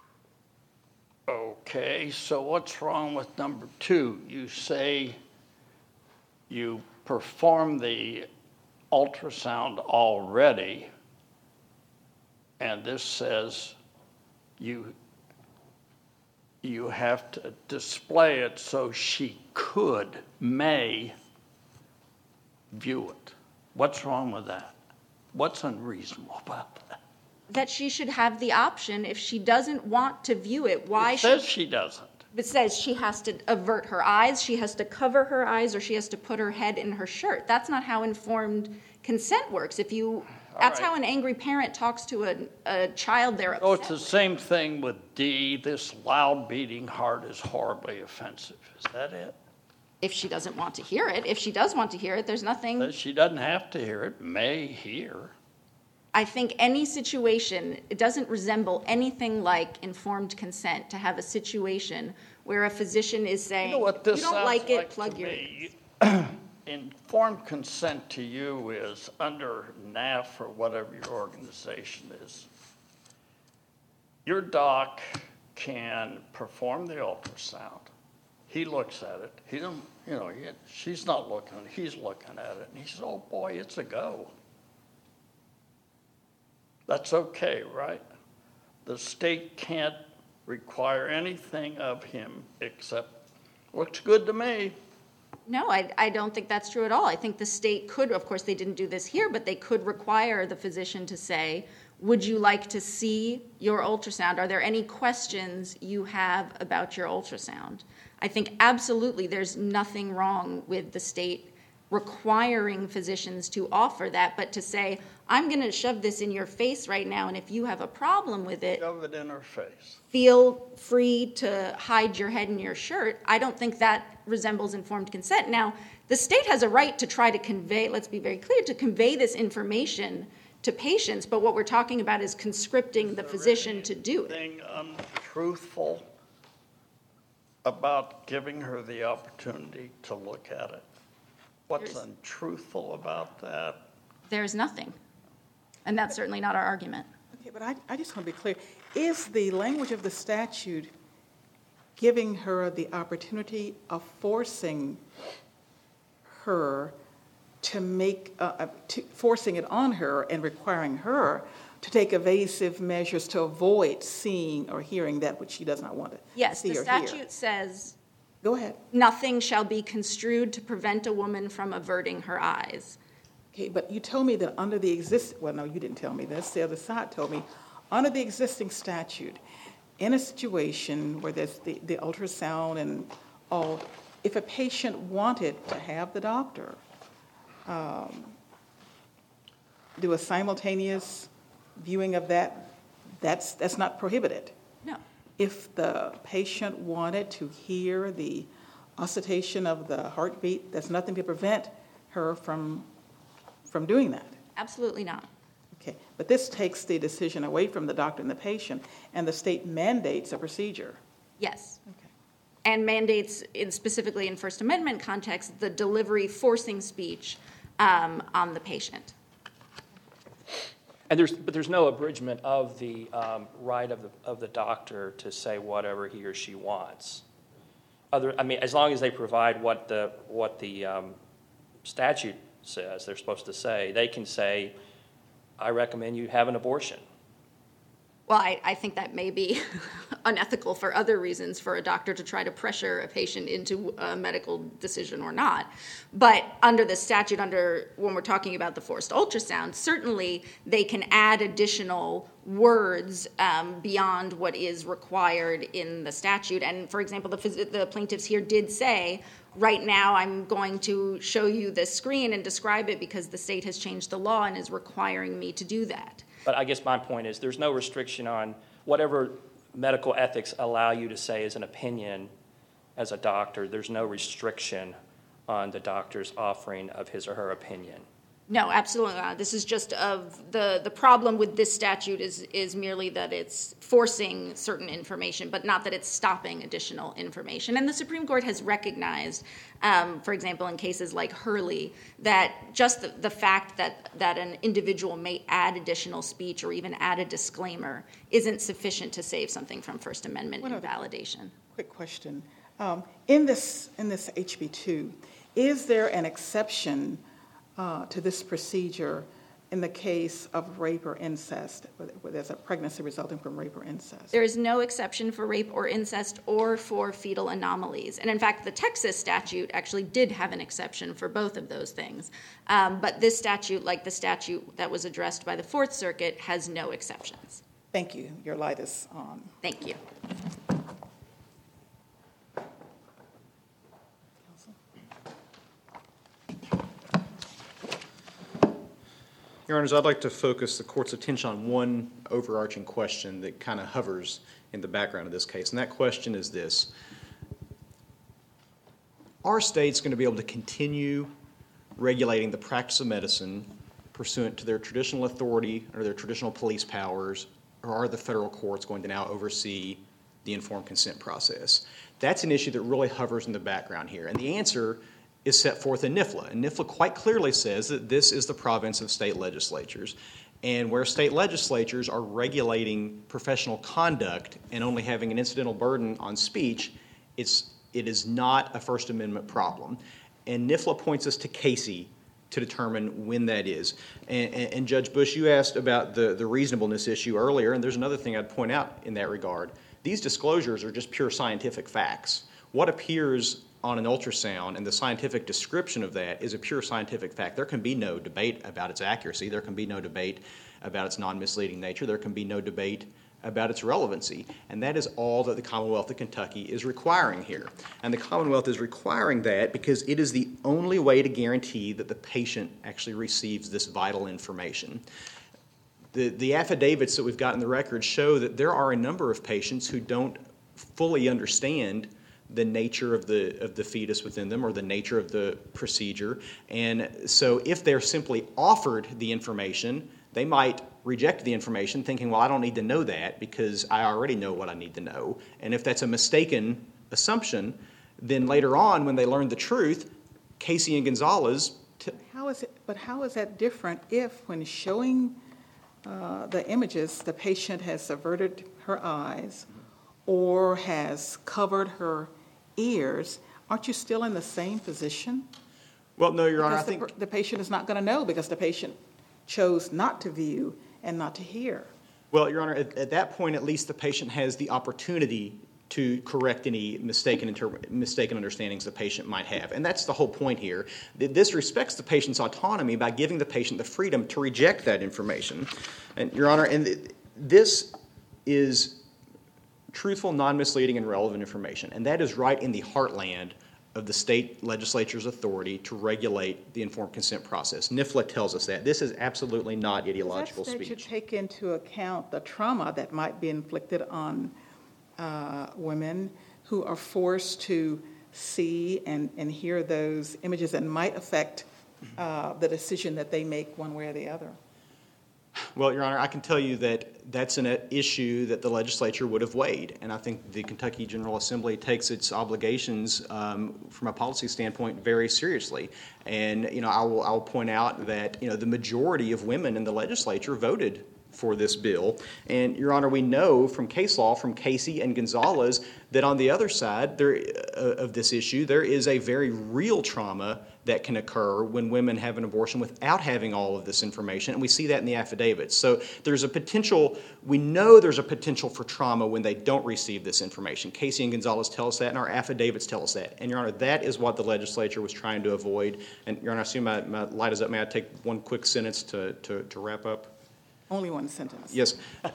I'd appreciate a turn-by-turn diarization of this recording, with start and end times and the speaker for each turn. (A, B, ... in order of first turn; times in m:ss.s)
0:01.3-0:05.2 A
0:06.5-0:08.3 A
0:08.9-0:10.9 A
0:12.6-0:13.8 A
0:14.6-0:14.9 A
0:16.6-0:21.1 A
0:22.7-0:24.8 A
0:25.3-0:27.0 A
0:27.5-0:31.5 B
0:30.9-0:32.2 A
0:32.3-0:44.1 B
0:40.5-0:40.9 A
0:43.6-0:49.4 A
0:50.0-0:52.9 B
0:52.8-0:55.3 A
0:56.1-1:05.7 B
1:03.6-1:12.5 A
1:14.2-1:17.9 A
1:18.5-1:24.3 A
1:26.9-1:28.0 A
1:28.8-1:34.8 A
1:35.5-1:58.8 B
1:58.8-2:00.0 A
2:00.1-2:14.4 B
2:13.0-2:16.0 A
2:17.6-2:20.8 A
2:21.7-2:23.8 A
2:21.8-2:22.0 B
2:24.3-2:25.0 B
2:25.8-2:27.1 B
2:27.3-2:30.9 C
2:32.0-2:35.0 C
2:36.3-2:36.9 C
2:37.6-2:47.2 C
2:46.3-2:48.0 B
2:48.4-2:48.8 C
2:48.9-2:53.0 B
2:53.5-2:59.4 C
3:00.0-3:06.8 C
3:07.7-3:08.3 C
3:10.0-3:14.5 C
3:15.4-3:22.9 C
3:23.7-3:24.4 C
3:24.6-3:25.3 B
3:25.8-3:31.0 C
3:31.4-3:31.8 B
3:32.6-3:39.1 B
3:41.1-3:47.2 D
3:48.1-3:51.2 D
3:51.8-3:54.7 D
3:55.6-3:57.0 D
3:58.3-4:26.3 B
4:26.4-4:32.3 D
4:33.0-4:35.0 D
4:35.5-4:38.0 D
4:38.5-5:01.5 B
5:00.6-5:01.0 C
5:01.6-5:07.2 C
5:07.8-5:14.3 C
5:14.3-5:27.6 B
5:27.9-5:29.5 C
5:29.6-5:30.0 B
5:39.7-5:46.9 E
5:49.4-5:51.3 E
5:52.0-6:55.0 E
6:56.1-7:22.2 E
7:22.2-7:25.4 C
7:26.0-7:29.7 C
7:30.2-7:35.5 C
7:36.2-7:37.1 E
7:36.6-7:41.9 C
7:42.3-7:59.0 E
7:59.9-8:11.1 E
8:10.2-8:14.5 C
8:15.2-8:21.6 C
8:22.2-8:24.6 C
8:25.7-9:10.3 E
9:10.9-9:11.9 C
9:11.7-9:12.0 E